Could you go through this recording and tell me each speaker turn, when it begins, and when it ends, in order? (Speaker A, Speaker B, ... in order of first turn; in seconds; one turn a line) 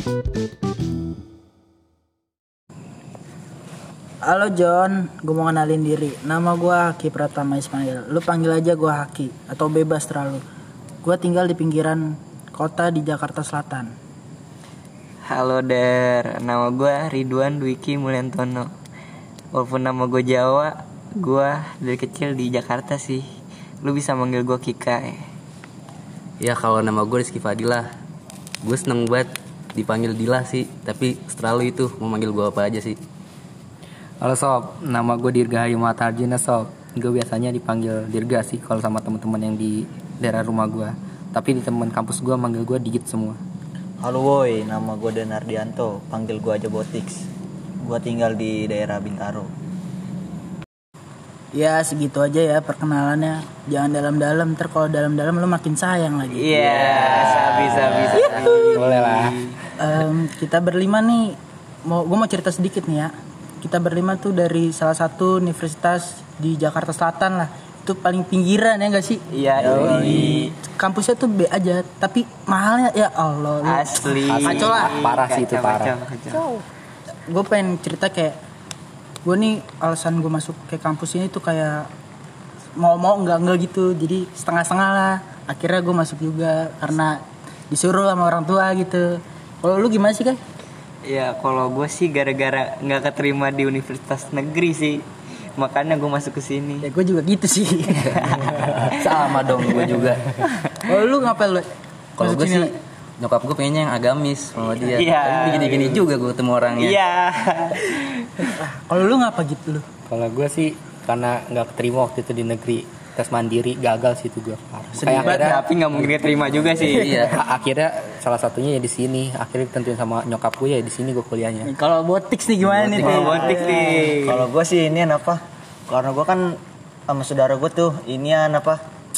Speaker A: 4.2-10.4
Speaker A: 11.0-13.9
Speaker B: 15.3-18.7
Speaker B: 19.5-23.3
Speaker B: 23.8-25.2
Speaker C: 26.4-27.9
Speaker C: 28.6-33.0
Speaker D: 34.2-43.4
Speaker E: 44.0-47.2
Speaker E: 47.8-49.5
Speaker A: 51.5-56.5
Speaker B: 56.3-59.6
Speaker C: 56.6-58.3
Speaker A: 58.2-58.4
Speaker D: 58.8-59.4
Speaker A: 59.8-69.2
Speaker B: 69.3-70.5
Speaker E: 69.6-70.5
Speaker A: 70.3-75.0
Speaker B: 73.6-76.4
Speaker D: 74.3-75.9
Speaker A: 77.3-78.4
Speaker A: 79.2-81.9
Speaker A: 82.8-90.4
Speaker B: 91.0-95.1
Speaker B: 95.6-96.9
Speaker A: 96.8-98.4
Speaker C: 98.8-100.2
Speaker A: 100.9-101.7
Speaker C: 102.2-107.0
Speaker A: 102.2-102.7
Speaker B: 104.9-106.1
Speaker B: 106.7-108.5
Speaker A: 108.5-109.9
Speaker D: 110.1-116.1
Speaker A: 115.0-115.6
Speaker B: 115.2-117.3
Speaker D: 116.8-121.7
Speaker C: 116.8-117.4
Speaker A: 121.6-124.1
Speaker E: 122.8-128.8
Speaker B: 122.9-124.5